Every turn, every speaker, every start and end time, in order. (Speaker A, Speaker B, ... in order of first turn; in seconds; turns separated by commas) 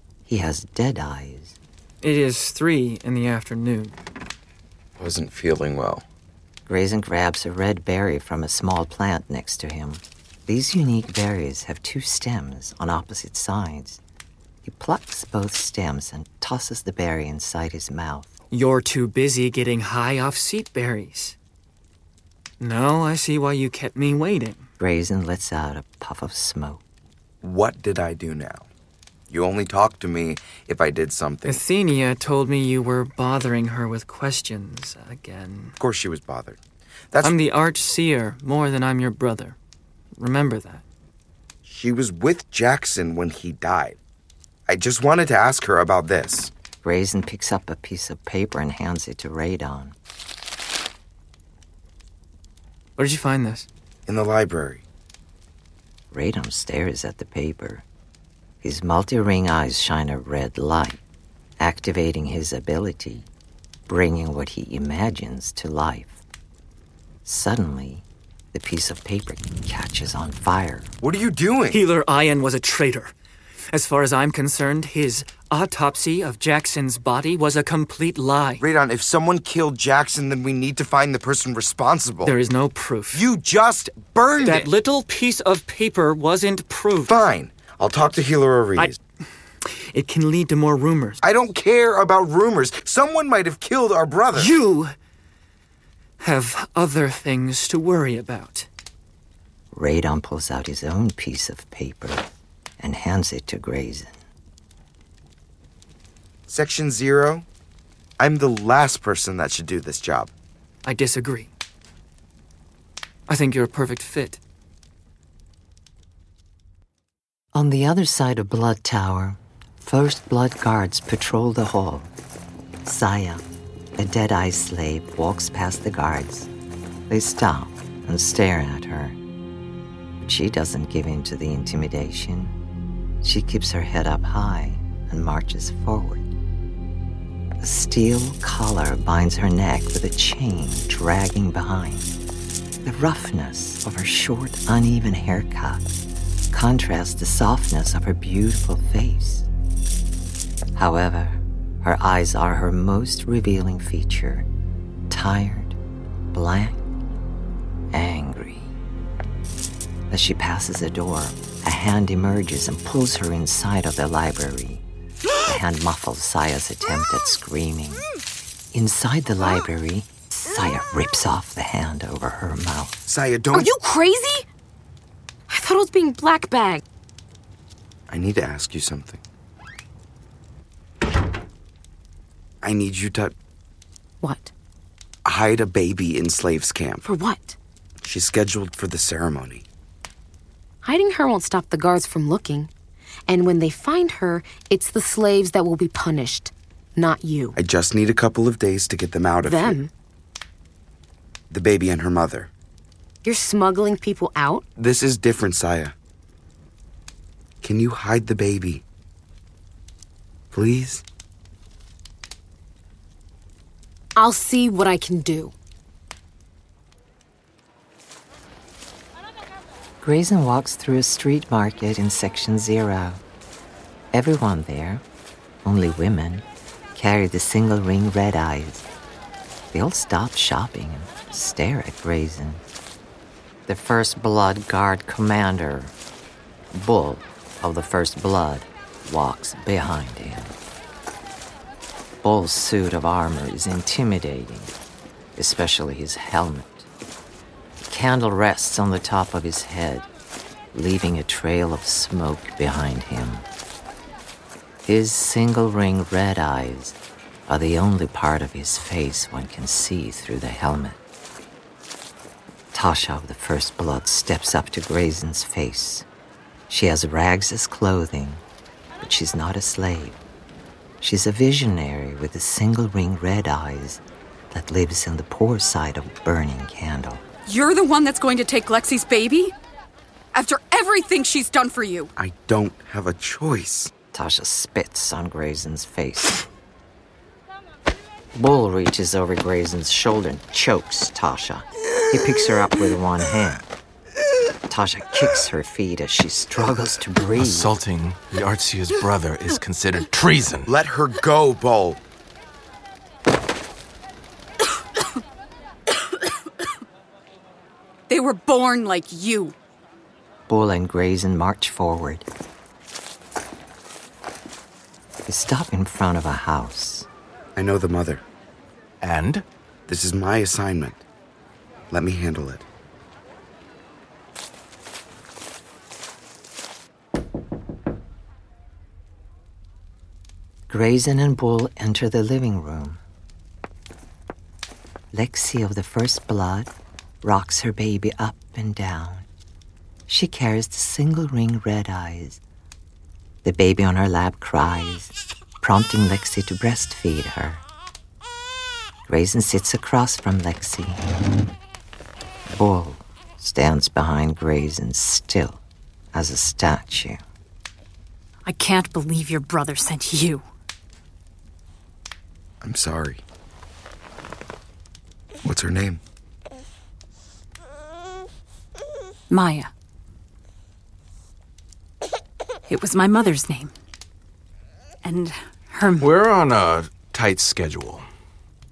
Speaker A: 0.3-1.6, Speaker B: 2.0-4.0, Speaker C: 5.0-6.0, Speaker A: 6.7-14.0, Speaker A: 14.6-18.3, Speaker B: 18.5-21.4, Speaker B: 22.6-24.7, Speaker A: 24.8-26.8, Speaker C: 27.4-28.7, Speaker C: 29.3-31.6, Speaker B: 31.4-35.8, Speaker C: 35.8-36.6, Speaker B: 37.2-39.6, Speaker B: 40.2-40.8, Speaker C: 41.6-44.0, Speaker C: 44.7-46.5, Speaker A: 46.8-50.0, Speaker B: 53.0-53.7, Speaker C: 54.1-54.8, Speaker A: 56.1-57.8, Speaker A: 58.6-61.0, Speaker A: 61.6-63.3, Speaker A: 63.9-66.2, Speaker A: 67.2-70.9, Speaker C: 71.0-71.8, Speaker B: 71.7-73.1, Speaker B: 73.7-78.6, Speaker C: 78.6-82.3, Speaker B: 82.2-83.2, Speaker C: 83.1-84.7, Speaker B: 84.4-87.1, Speaker C: 87.0-89.0, Speaker B: 89.6-91.2, Speaker C: 91.2-94.5, Speaker B: 94.3-95.0, Speaker B: 96.2-98.7, Speaker A: 99.7-102.3, Speaker A: 102.8-104.2, Speaker C: 106.5-107.5, Speaker C: 108.2-110.3, Speaker B: 110.8-111.5, Speaker B: 113.3-114.4, Speaker A: 117.5-122.1, Speaker A: 122.8-123.5, Speaker A: 124.0-126.5, Speaker A: 127.1-129.2, Speaker A: 130.2-132.6, Speaker A: 133.2-136.3, Speaker A: 137.6-142.1, Speaker A: 142.8-149.5, Speaker A: 150.8-154.5, Speaker A: 155.1-155.8, Speaker A: 156.3-156.9, Speaker A: 157.9-158.7, Speaker A: 160.1-164.8, Speaker A: 165.4-168.1, Speaker A: 168.7-173.0, Speaker C: 173.1-173.7, Speaker D: 173.5-174.4, Speaker D: 175.5-176.8, Speaker C: 178.1-179.2, Speaker C: 182.6-183.3, Speaker D: 184.2-184.5, Speaker C: 185.2-187.1, Speaker D: 187.0-187.6, Speaker C: 188.0-189.7, Speaker D: 190.8-192.7, Speaker D: 193.3-197.6, Speaker C: 197.6-199.8, Speaker D: 199.4-199.9, Speaker C: 201.5-202.5, Speaker D: 203.2-204.7, Speaker C: 204.8-205.9, Speaker C: 207.6-208.8, Speaker C: 210.5-211.0, Speaker D: 214.2-215.5, Speaker A: 220.0-223.2, Speaker A: 224.1-225.0, Speaker A: 225.6-228.9, Speaker A: 229.7-232.6, Speaker A: 233.7-235.9, Speaker A: 236.7-240.6, Speaker A: 242.2-244.8, Speaker A: 245.4-246.9, Speaker A: 247.9-250.1, Speaker A: 250.7-253.5, Speaker A: 254.8-261.0, Speaker A: 262.7-266.1, Speaker A: 266.7-268.4, Speaker A: 269.0-270.2, Speaker A: 271.0-277.2, Speaker E: 277.5-279.6, Speaker E: 280.3-282.1, Speaker C: 282.2-283.9, Speaker A: 284.1-286.4, Speaker A: 288.3-293.6, Speaker A: 294.7-297.7, Speaker F: 297.4-300.7, Speaker C: 300.7-302.0, Speaker E: 308.1-309.6, Speaker A: 310.5-312.3, Speaker A: 315.3-317.1, Speaker C: 317.6-318.2, Speaker F: 319.0-319.4, Speaker C: 319.9-321.0, Speaker C: 321.9-322.6, Speaker A: 330.7-333.0, Speaker A: 335.1-339.3, Speaker A: 340.1-342.4, Speaker A: 343.4-347.6, Speaker A: 349.1-351.1, Speaker A: 352.5-355.6, Speaker A: 356.1-357.2, Speaker G: 358.5-360.5, Speaker C: 362.6-363.2, Speaker C: 365.4-366.0, Speaker G: 369.3-369.7, Speaker G: 372.7-373.7, Speaker G: 375.0-376.1, Speaker F: 376.0-378.1